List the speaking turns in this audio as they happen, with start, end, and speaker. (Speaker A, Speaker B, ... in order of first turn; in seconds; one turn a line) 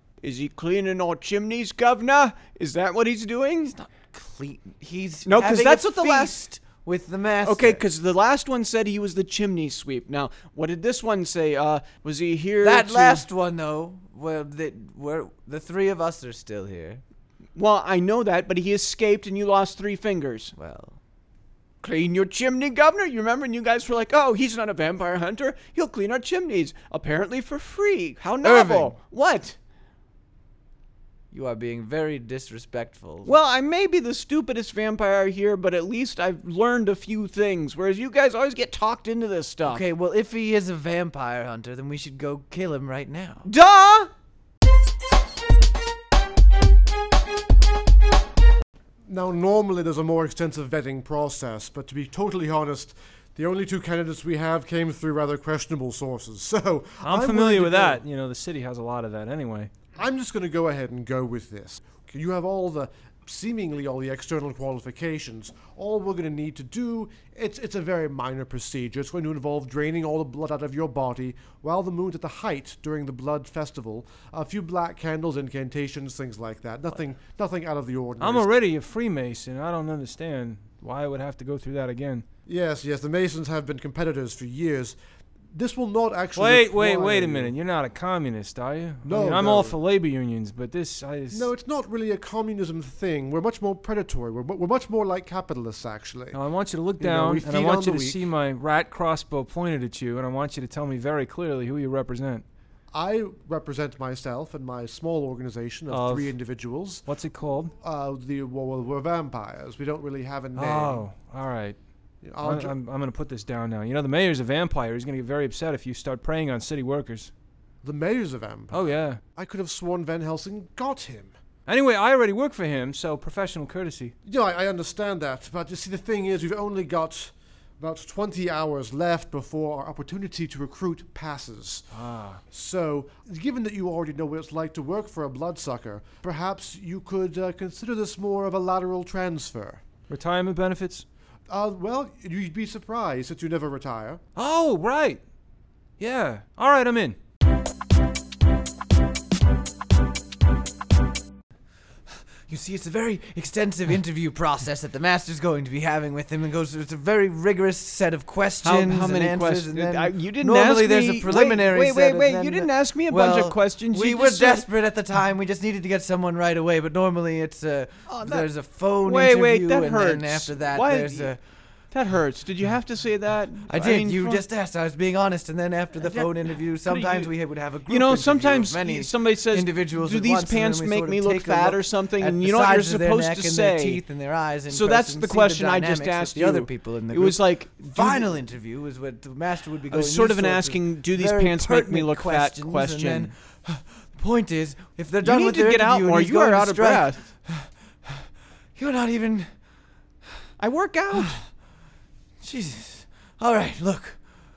Speaker A: 0.2-3.8
Speaker B: 3.7-7.8
Speaker A: 5.3-6.4
Speaker A: 7.4-13.2
Speaker B: 12.6-17.0
Speaker A: 17.6-20.5
Speaker B: 20.6-21.0
Speaker A: 21.8-29.6
Speaker B: 28.4-28.9
Speaker B: 31.3-33.3
Speaker A: 33.2-39.9
Speaker B: 39.6-43.5
Speaker A: 43.5-44.1
Speaker C: 49.1-58.0
Speaker D: 57.0-59.7
Speaker C: 60.0-78.5
Speaker D: 78.2-82.3
Speaker C: 82.5-85.0
Speaker C: 85.5-87.5
Speaker D: 86.3-91.5
Speaker C: 89.0-89.8
Speaker C: 91.3-96.4
Speaker D: 96.3-102.4
Speaker C: 97.0-98.2
Speaker C: 102.9-107.1
Speaker D: 105.9-106.4
Speaker D: 107.1-107.7
Speaker C: 107.8-111.0
Speaker D: 110.5-111.8
Speaker C: 112.2-112.8
Speaker D: 112.4-117.3
Speaker C: 117.8-121.3
Speaker D: 118.7-119.2
Speaker D: 121.7-124.1
Speaker C: 124.2-131.9
Speaker D: 131.9-132.4
Speaker C: 132.5-139.8
Speaker D: 140.1-141.1
Speaker C: 141.5-144.2
Speaker D: 144.4-145.2
Speaker D: 146.0-147.2
Speaker B: 152.5-171.4
Speaker A: 158.6-164.7
Speaker A: 168.1-168.5
Speaker A: 169.0-171.3
Speaker A: 171.9-174.4
Speaker B: 173.7-199.5
Speaker A: 176.0-177.3
Speaker A: 177.9-184.0
Speaker A: 184.7-188.4
Speaker A: 189.9-193.3
Speaker A: 195.2-197.2
Speaker A: 200.6-201.4
Speaker B: 201.1-201.5
Speaker B: 202.4-204.2